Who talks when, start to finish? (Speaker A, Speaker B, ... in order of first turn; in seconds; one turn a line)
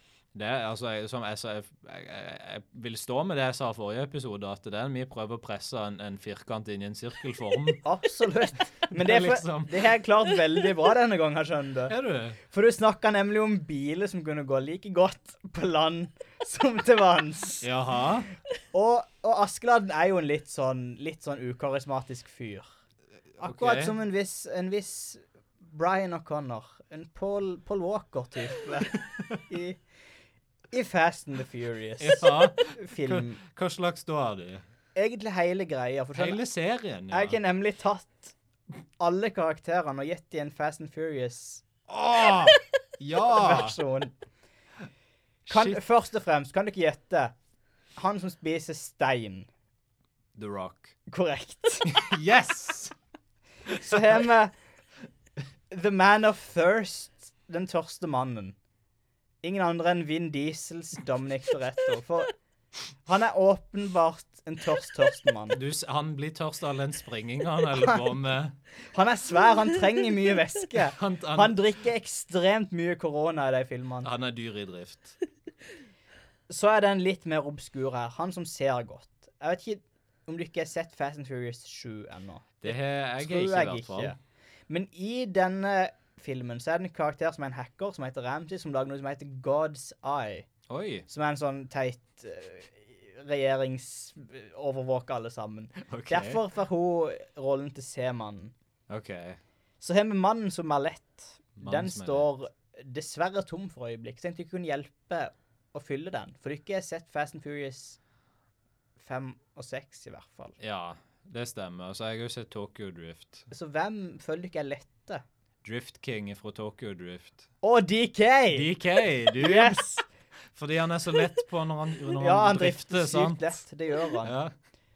Speaker A: 0.3-7.8
Speaker B: 7.8-17.7
Speaker A: 8.9-9.9
Speaker A: 11.9-12.4
Speaker A: 17.6-18.3
Speaker B: 18.7-22.7
Speaker B: 23.4-29.8
Speaker A: 23.4-23.9
Speaker A: 29.1-29.4
Speaker B: 30.7-33.4
Speaker A: 32.0-34.6
Speaker B: 34.9-36.4
Speaker A: 36.1-37.4
Speaker B: 37.1-38.3
Speaker B: 39.0-41.6
Speaker A: 41.9-43.8
Speaker B: 43.3-44.1
Speaker A: 45.5-45.8
Speaker B: 45.5-47.3
Speaker B: 48.0-49.5
Speaker A: 50.3-50.9
Speaker B: 51.1-52.0
Speaker A: 51.8-52.9
Speaker A: 53.7-54.0
Speaker B: 53.8-54.5
Speaker B: 55.7-58.5
Speaker B: 59.4-62.3
Speaker B: 63.0-65.6
Speaker A: 65.5-68.5
Speaker B: 67.7-68.0
Speaker B: 68.9-74.1
Speaker A: 70.8-71.6
Speaker A: 74.0-75.2
Speaker B: 76.5-84.2
Speaker A: 82.6-84.1
Speaker B: 84.7-90.5
Speaker A: 90.7-91.1
Speaker B: 91.1-98.5
Speaker A: 95.8-96.4
Speaker A: 98.9-99.4
Speaker B: 99.8-108.0
Speaker A: 101.6-102.3
Speaker B: 109.0-110.6
Speaker A: 110.6-113.5
Speaker B: 113.5-115.2
Speaker A: 115.6-117.5
Speaker B: 117.6-118.7
Speaker A: 118.5-119.8
Speaker B: 119.3-120.0
Speaker A: 120.5-123.6
Speaker B: 122.2-124.3
Speaker A: 124.2-124.5